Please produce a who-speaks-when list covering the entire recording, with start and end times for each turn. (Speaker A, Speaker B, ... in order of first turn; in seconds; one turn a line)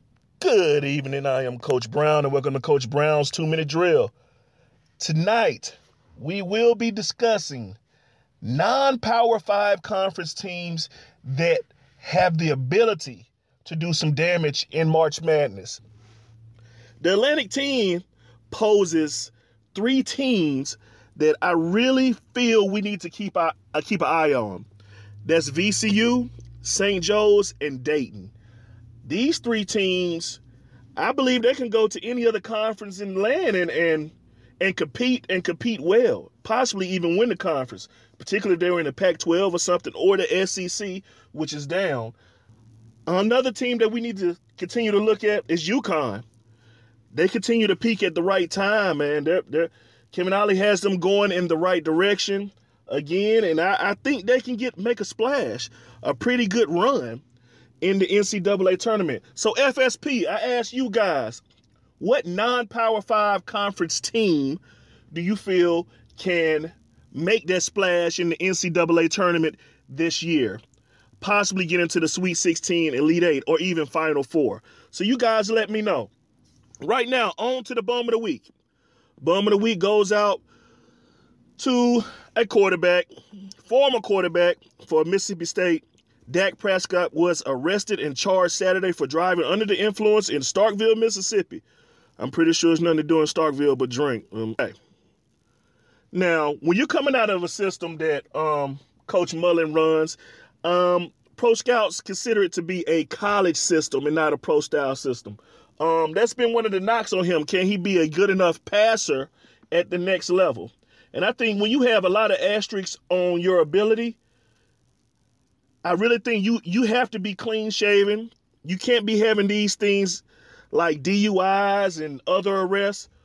Speaker A: 0.4-4.1
Speaker A: 5.0-7.8
Speaker A: 8.4-15.8
Speaker A: 17.0-24.7
Speaker A: 25.2-28.3
Speaker A: 29.0-30.4
Speaker A: 31.0-42.2
Speaker A: 43.1-46.2
Speaker A: 47.1-57.2
Speaker A: 57.8-61.4
Speaker A: 62.0-70.6
Speaker A: 71.2-76.1
Speaker A: 76.8-78.5
Speaker A: 79.2-80.4
Speaker A: 81.6-83.1
Speaker A: 83.6-91.6
Speaker A: 92.2-94.8
Speaker A: 96.1-114.2
Speaker A: 115.8-123.1